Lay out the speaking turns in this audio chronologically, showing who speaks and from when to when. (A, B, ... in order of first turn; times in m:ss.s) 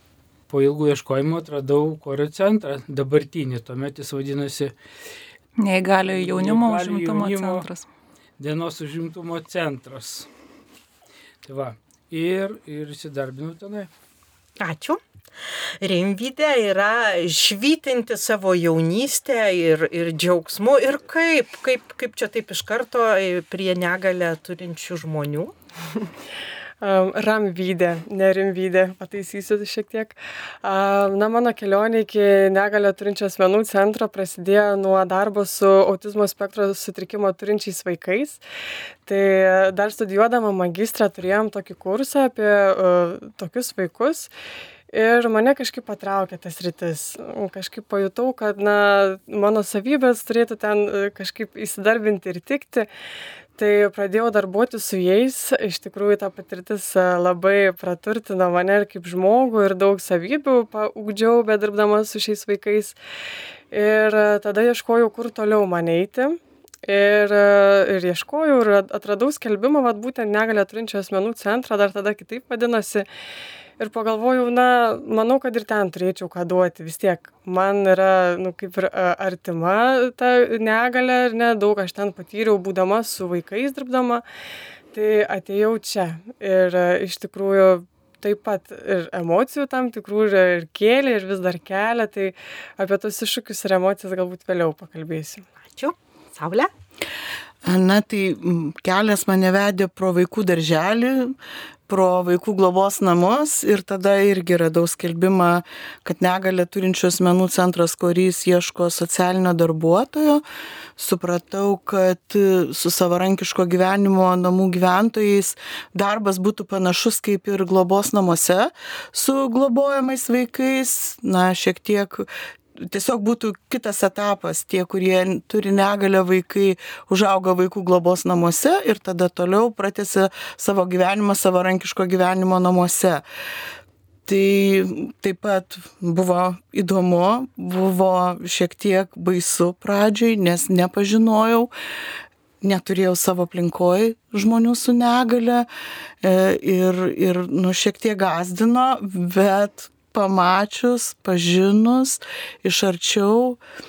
0:00.5-0:04.7 A
0:05.6-0:07.8 B
0:06.0-0:07.7 A
0:08.4-0:10.3 A
0:11.4-0:13.9 A
0:14.6-0:15.0 C
0:15.8-0:25.5 C
0:26.8-0:38.4 D
0:39.1-0:44.3 D
0:44.9-0:52.9 D
0:53.6-1:03.0 D
1:03.7-1:13.1 D
1:13.8-1:24.2 D
1:24.9-1:35.4 D
1:35.7-1:36.7 C
1:37.6-1:41.4 E
1:41.9-1:50.4 E
1:51.0-2:13.2 E
2:14.3-2:21.7 E
2:22.6-2:25.7 E
2:26.2-2:33.6 E